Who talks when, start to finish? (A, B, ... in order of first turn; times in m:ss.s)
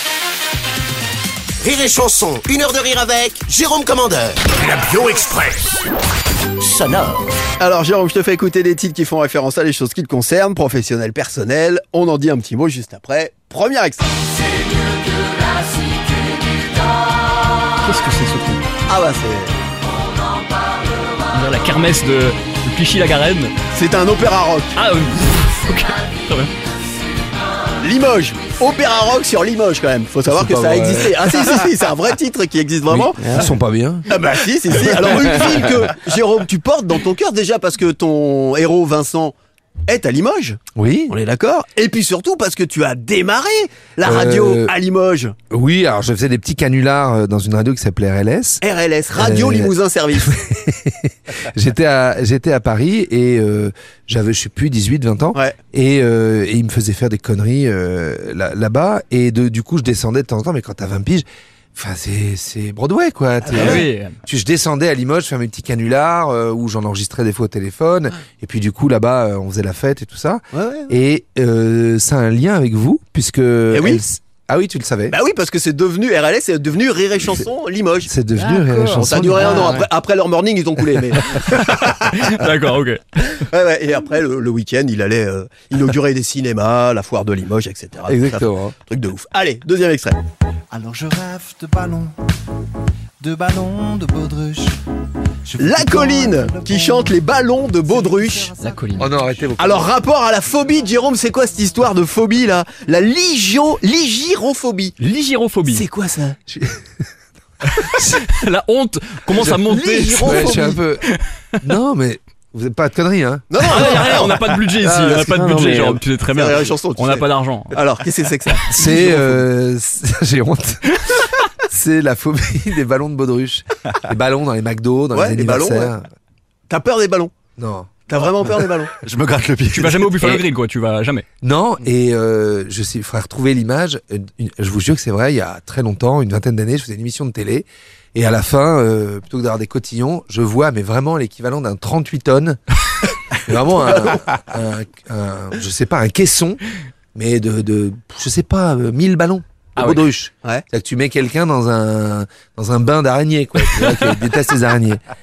0:01.6-0:05.6 A
0:06.6-0:07.2 A
0:07.6-0:14.2 B
0:17.8-0:18.7 C
0:18.9-0:19.5 B
0:21.3-0:23.5 C
0:23.7-0:24.8 B
0:24.7-0:26.5 C
0:27.8-0:33.5 B
0:30.3-0:31.4 D
0:32.9-0:34.1 D
0:34.1-0:39.3 B
0:39.9-0:45.3 B
0:40.7-0:41.1 D
0:44.0-0:44.7 D
0:45.5-0:48.6 D
0:48.6-0:50.4 B
0:49.1-1:15.2 D
1:03.5-1:03.8 B
1:03.5-1:04.1 C
1:10.5-1:10.9 B
1:13.7-1:14.0 B
1:15.1-1:18.1 B
1:18.0-1:19.8 D
1:18.5-1:19.2 E
1:18.9-1:22.4 B
1:21.4-1:23.4 C
1:23.3-1:30.2 B
1:28.1-1:28.7 D
1:30.7-1:32.2 E
1:33.2-1:34.8 E
1:35.4-1:37.1 E
1:35.6-1:38.5 B
1:37.9-1:39.4 E
1:38.6-1:39.1 C
1:39.0-1:39.9 D
1:39.6-1:45.0 B
1:45.0-1:45.8 C
1:45.6-1:46.4 B
1:46.5-1:46.8 D
1:47.8-1:48.2 D
1:47.8-1:51.2 C
1:49.4-1:50.8 B
1:50.2-1:51.0 D
1:51.6-1:54.2 D
1:53.5-1:55.2 B
1:53.6-1:57.8 C
1:54.8-1:56.0 D
1:56.3-1:59.4 B
1:58.7-2:06.0 D
2:05.1-2:05.9 B
2:06.7-2:07.3 B
2:07.6-2:08.0 D
2:08.1-2:09.0 B
2:09.7-2:11.2 C
2:11.4-2:22.6 D
2:23.3-2:26.6 D
2:23.9-2:24.2 B
2:27.1-2:35.0 D
2:29.8-2:30.0 C